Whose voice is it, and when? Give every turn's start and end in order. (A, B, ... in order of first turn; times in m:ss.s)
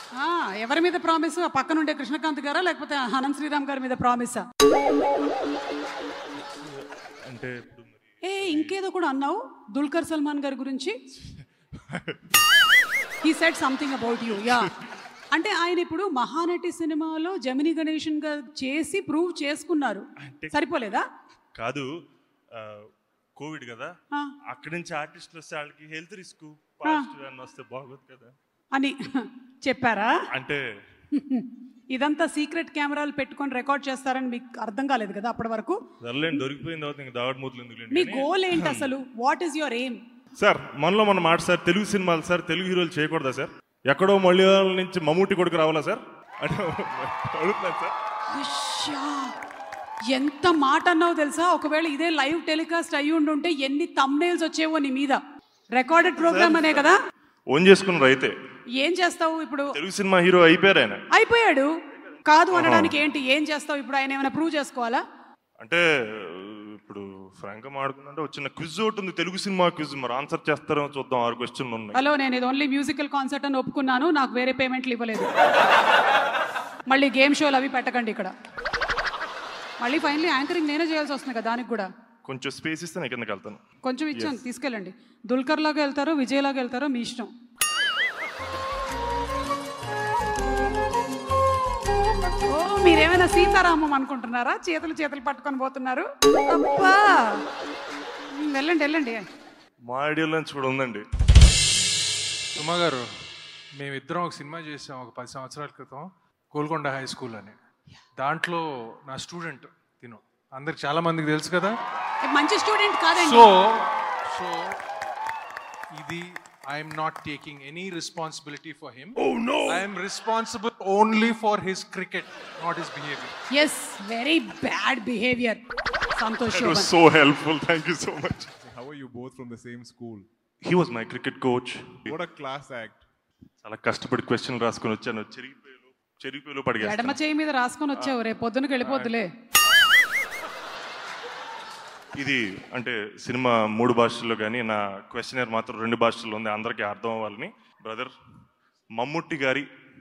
0:00.2-0:04.4 A
0:06.5-0:08.8 B
0:08.2-0:11.0 A
0:11.2-0:12.2 B
0:13.2-0:14.7 A
0:15.3-0:21.0 A
0:20.2-0:20.6 B
0:21.6-0:21.9 B
0:22.6-0:23.9 B
0:24.5-0:28.3 B
0:28.7-0:30.1 A
0:30.4-0:30.6 B
0:31.1-0:35.8 A
0:36.0-0:38.9 B
0:37.9-0:40.0 A
0:40.4-0:47.9 B
0:48.3-0:49.3 A
0:50.1-0:55.2 A
0:55.7-0:57.0 A
0:56.1-0:56.9 B
0:57.5-0:58.3 B
0:58.8-0:59.7 A
0:59.8-1:01.0 B
1:01.1-1:01.7 A
1:02.3-1:05.0 A
1:02.5-1:02.9 B
1:05.6-1:12.0 B
1:11.9-1:15.3 A
1:16.9-1:18.3 A
1:19.8-1:21.9 A
1:22.2-1:23.6 B
1:23.8-1:27.3 A
1:24.1-1:24.4 B
1:32.5-1:37.4 A
1:38.4-1:39.2 A
1:39.9-1:41.0 B
1:42.6-1:43.1 C
1:43.7-1:47.6 C
1:48.2-1:51.8 C
1:52.2-1:53.5 A
1:53.2-1:54.8 C
1:55.9-2:03.3 C
2:03.5-2:05.6 A
2:06.2-2:06.9 A
2:06.5-2:08.5 B
2:08.6-2:10.3 D
2:10.6-2:12.2 B
2:12.1-2:13.0 D
2:13.6-2:17.2 B
2:16.8-2:19.3 A
2:18.8-2:19.1 B
2:22.2-2:28.1 B
2:29.0-2:29.7 B